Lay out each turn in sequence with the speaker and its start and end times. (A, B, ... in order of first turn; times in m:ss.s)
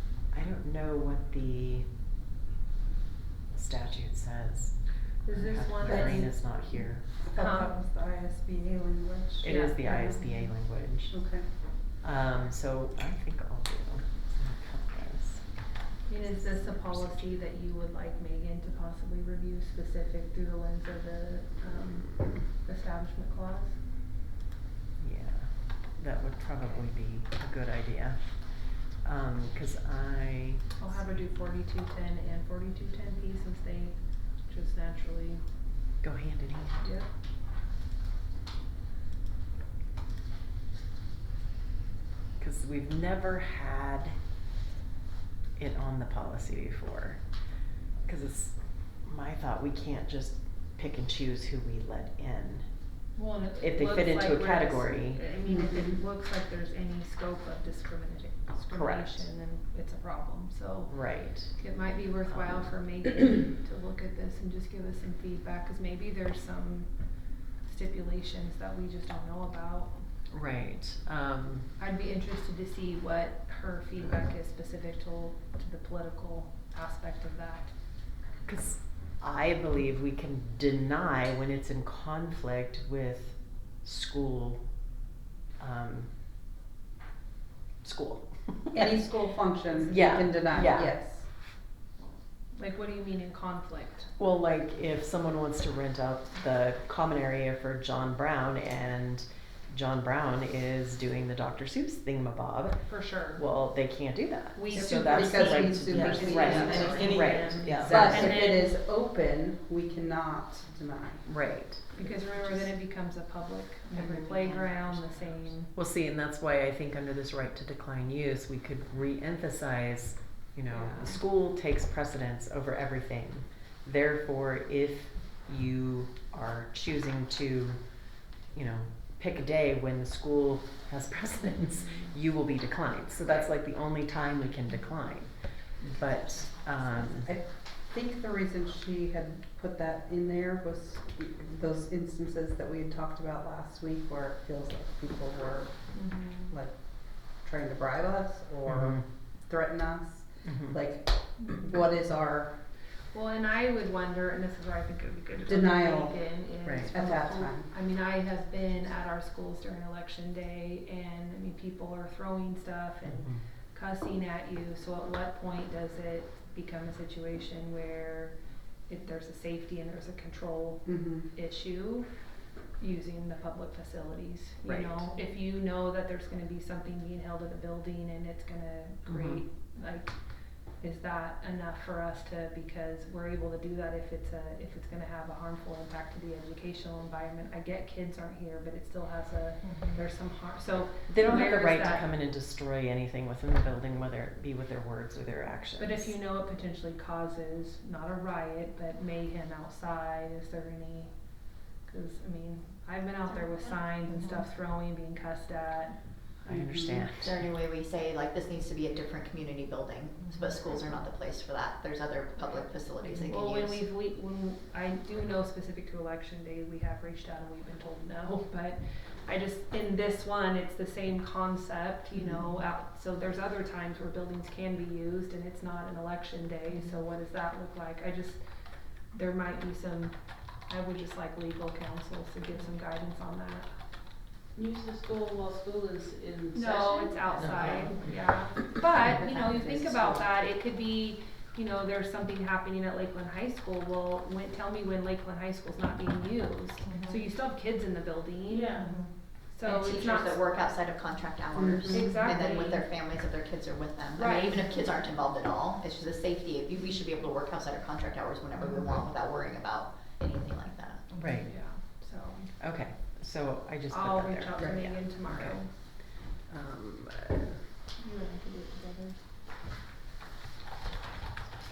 0:00.3-0:01.9 A
0:03.5-0:07.0 A
0:05.2-0:06.5 B
0:05.8-0:10.2 C
0:07.2-0:07.7 B
0:09.4-0:11.3 A
0:09.4-0:10.5 B
0:11.1-0:11.5 C
0:11.9-0:15.6 A
0:16.1-0:23.8 B
0:25.0-0:31.0 A
0:30.8-0:35.4 B
0:36.0-0:36.9 A
0:36.8-0:37.1 B
0:42.4-0:44.2 A
0:45.6-0:47.2 A
0:48.0-0:52.7 A
0:53.2-1:10.1 B
0:53.6-0:55.2 A
0:55.4-0:56.0 C
0:58.6-0:59.3 A
1:00.9-1:01.6 A
1:10.3-1:11.7 A
1:11.8-1:17.8 B
1:18.4-1:24.6 A
1:25.6-1:26.1 A
1:27.8-1:28.9 A
1:28.7-1:31.3 C
1:29.9-1:31.0 A
1:32.5-1:34.2 B
1:34.2-1:48.4 A
1:42.9-1:43.4 B
1:44.6-1:52.7 C
1:44.7-1:48.7 B
1:46.2-1:47.2 D
1:46.7-1:48.0 E
1:51.3-1:51.8 A
1:51.9-1:55.7 B
1:53.9-1:54.9 C
1:55.7-2:07.9 A
2:00.7-2:01.2 B
2:08.5-2:17.3 A
2:11.8-2:12.2 B
2:17.0-2:32.6 C
2:25.9-2:26.5 B
2:28.7-2:29.0 A
2:30.4-2:30.8 A
2:33.1-3:00.2 B
2:35.5-2:36.4 C
2:36.6-2:36.9 A
2:36.9-2:37.7 C
2:43.0-2:43.4 A
2:50.9-2:51.3 C
2:54.6-2:55.1 A
2:59.1-2:59.4 A
3:00.7-3:12.1 B
3:11.1-3:16.2 A
3:15.8-3:21.1 B
3:21.8-3:26.1 B
3:26.4-3:27.4 A
3:26.5-3:27.0 C
3:27.2-3:33.8 D
3:33.0-3:48.4 B
3:49.1-3:50.2 B
3:50.7-3:53.7 B
3:54.6-3:57.9 E
3:56.5-4:10.5 B
3:57.4-3:58.0 D
3:59.2-4:00.2 D
4:08.5-4:09.1 E
4:09.6-4:21.1 D
4:11.6-4:12.3 C
4:11.9-4:12.8 B
4:14.2-4:14.6 B
4:21.2-4:21.5 A
4:21.4-4:22.6 B
4:22.6-4:27.6 A
4:23.9-4:25.7 B
4:28.0-4:29.2 B